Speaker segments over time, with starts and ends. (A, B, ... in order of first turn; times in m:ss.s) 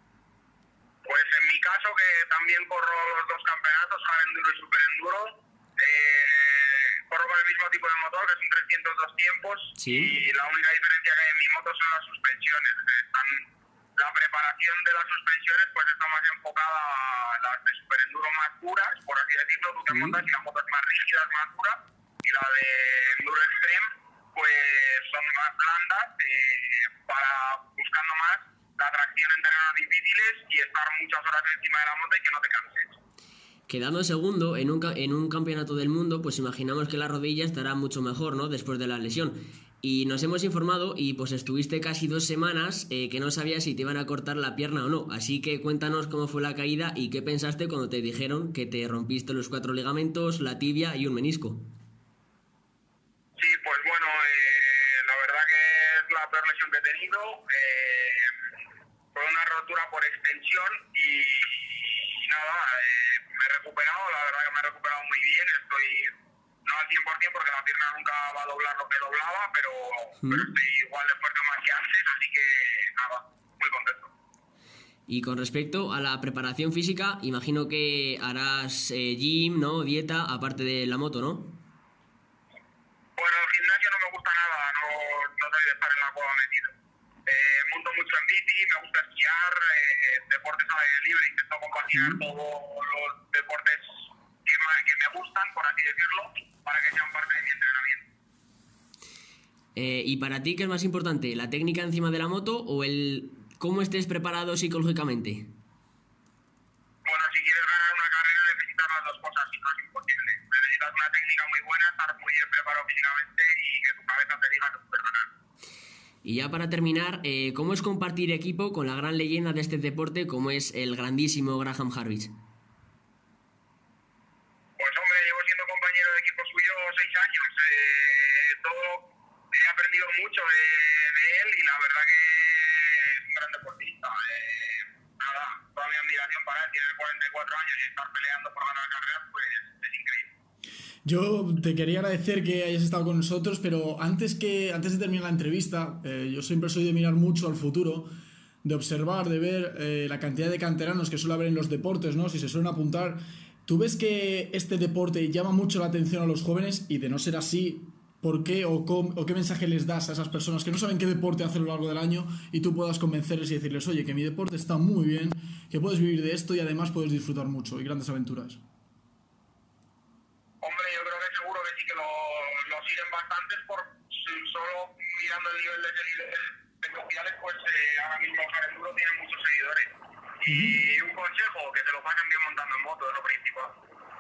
0:01.0-0:13.4 A
0:09.8-0:10.1 B
0:14.0-0:33.0 A
0:19.9-0:20.2 B
0:33.7-0:51.6 B
0:53.4-0:58.3 A
0:59.1-1:06.1 A
1:06.6-1:14.1 A
1:10.2-1:10.5 B
1:15.1-1:21.5 B
1:23.2-1:26.7 A
1:27.3-1:38.0 A
1:31.9-1:32.2 B
1:39.8-1:45.5 B
1:47.0-1:55.3 A
1:56.2-2:02.3 B
2:04.8-2:20.3 A
2:21.0-2:28.1 C
2:28.6-2:48.6 C
2:50.6-3:03.7 A
3:00.4-3:00.8 C